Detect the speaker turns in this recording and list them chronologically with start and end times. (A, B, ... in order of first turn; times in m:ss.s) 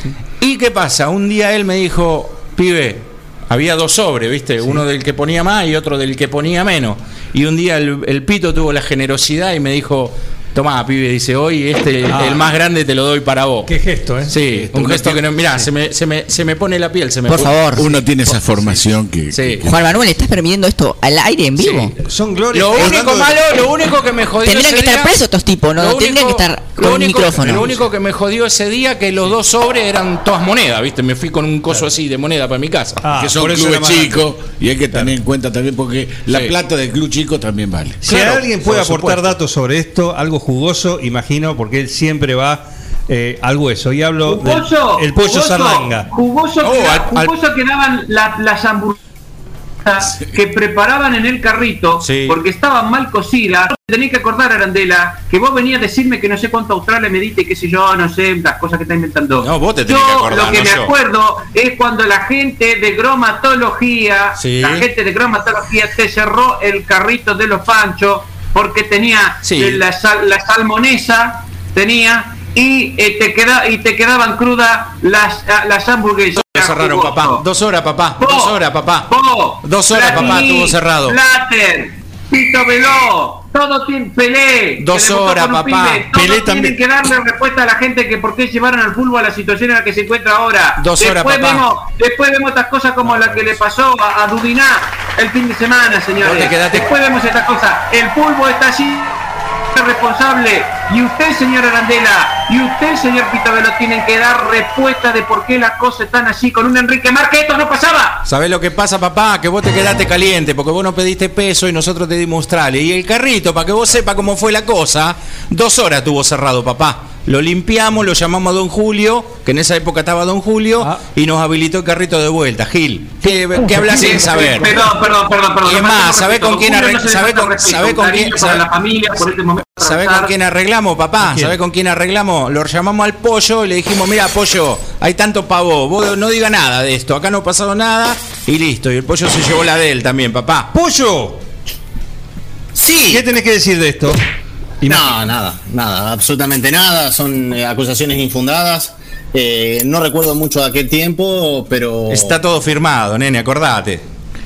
0:00.4-0:13.7 A
0:12.1-0:12.5 B
0:13.6-0:14.4 B
0:14.2-0:18.7 A
0:14.4-0:15.2 C
0:17.3-0:17.9 D
0:17.4-0:19.8 C
0:19.3-0:19.7 A
0:19.6-0:21.9 D
0:21.6-0:21.9 A
0:22.0-0:23.4 B
0:22.5-0:25.2 A
0:24.4-0:27.7 D
0:25.8-0:33.0 A
0:27.4-0:27.8 B
0:33.0-0:34.2 B
0:33.1-0:38.0 C
0:36.3-0:36.5 A
0:38.0-0:46.1 B
0:38.0-0:39.4 A
0:44.2-0:49.0 E
0:46.6-0:47.3 A
0:49.8-1:17.4 E
0:52.0-0:52.4 A
0:59.4-1:00.9 A
1:04.4-1:04.9 A
1:09.4-1:09.8 A
1:16.3-1:21.2 A
1:18.2-1:39.2 E
1:24.8-1:26.1 A
1:26.1-1:26.8 B
1:30.8-1:31.6 A
1:33.2-1:33.5 B
1:36.2-1:36.9 A
1:39.7-1:48.2 E
1:48.2-2:04.8 A
2:03.9-2:10.3 E
2:05.6-2:08.7 A
2:09.8-2:20.7 A
2:11.2-2:11.6 B
2:20.7-2:21.4 B
2:22.7-2:23.2 F
2:23.1-2:24.2 B
2:24.8-2:25.1 B
2:24.8-2:32.4 F
2:32.1-2:34.0 A